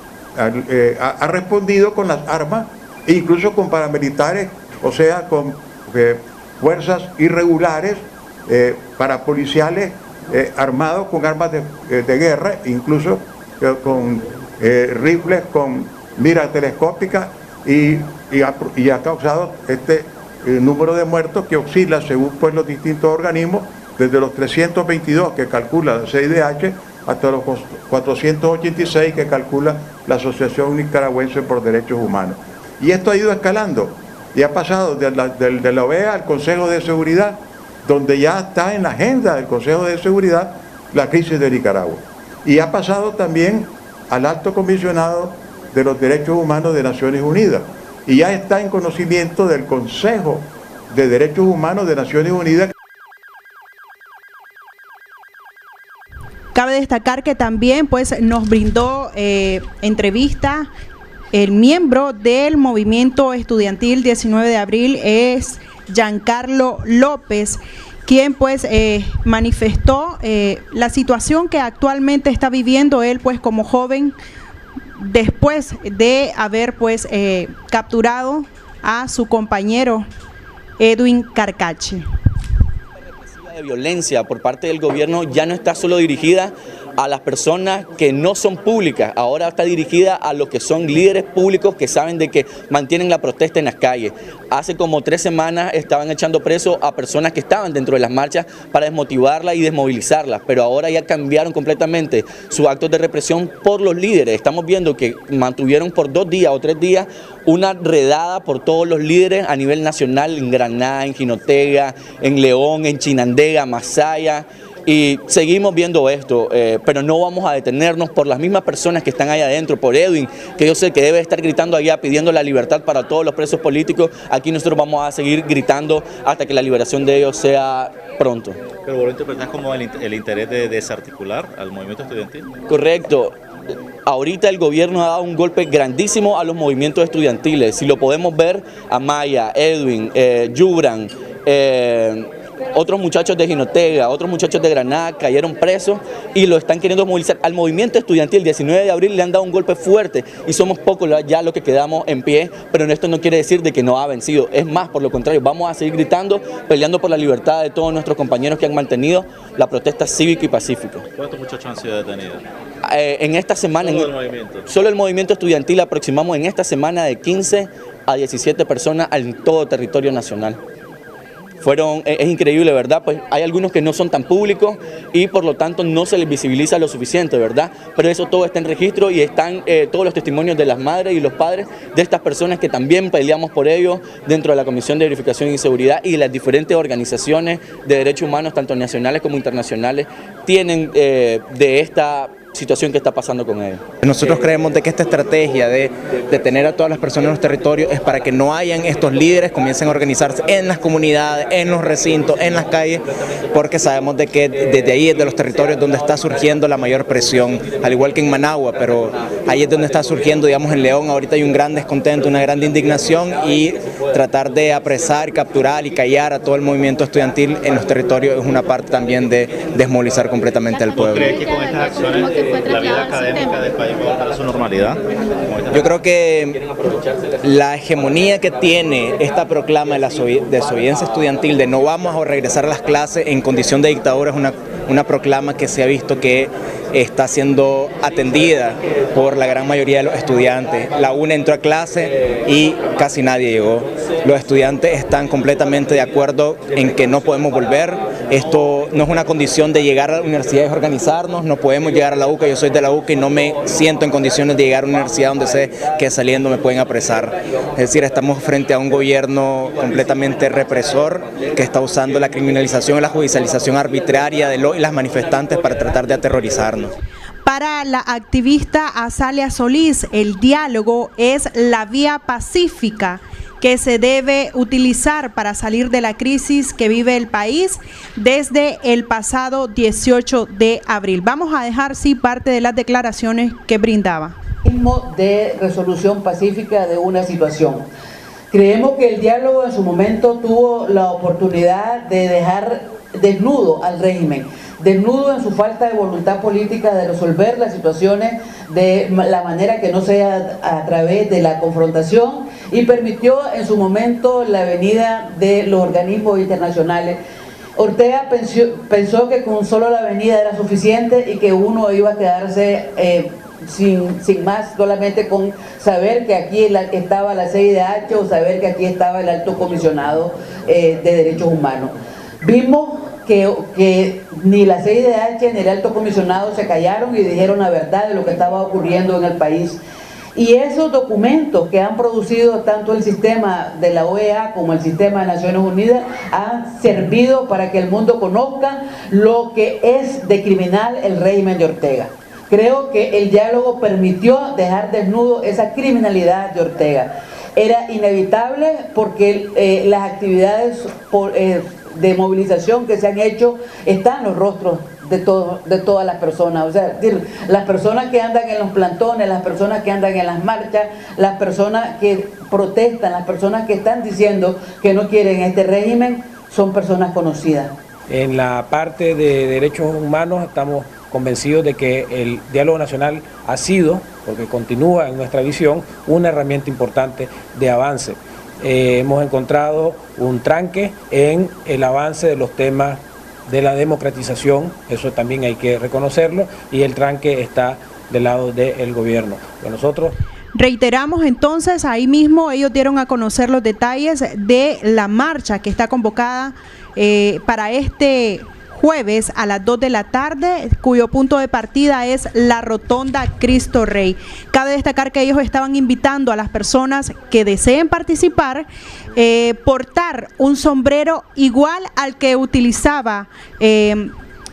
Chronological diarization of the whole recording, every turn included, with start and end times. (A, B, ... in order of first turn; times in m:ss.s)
0:00.4-0:52.7 A
0:56.5-1:00.7 B
1:01.3-1:14.2 B
1:15.0-1:20.0 B
1:20.8-1:22.0 B
1:23.4-2:08.6 C
2:08.8-2:12.5 D
2:12.7-2:13.4 C
2:14.0-2:41.0 C
2:41.1-2:42.4 D
2:42.8-2:50.6 C
2:43.7-2:44.6 D
2:51.6-3:13.8 C
3:14.0-3:41.4 E
3:40.9-3:45.9 D
3:45.7-3:46.6 E
3:47.4-4:26.9 E
4:27.4-4:44.4 B
4:44.6-4:47.9 F
4:48.5-5:07.2 F
5:07.8-5:29.8 F
5:30.4-6:07.7 F
6:08.1-6:08.8 G
6:10.1-6:10.8 G
6:11.6-6:14.6 G
6:16.1-6:16.6 G
6:30.5-6:54.1 B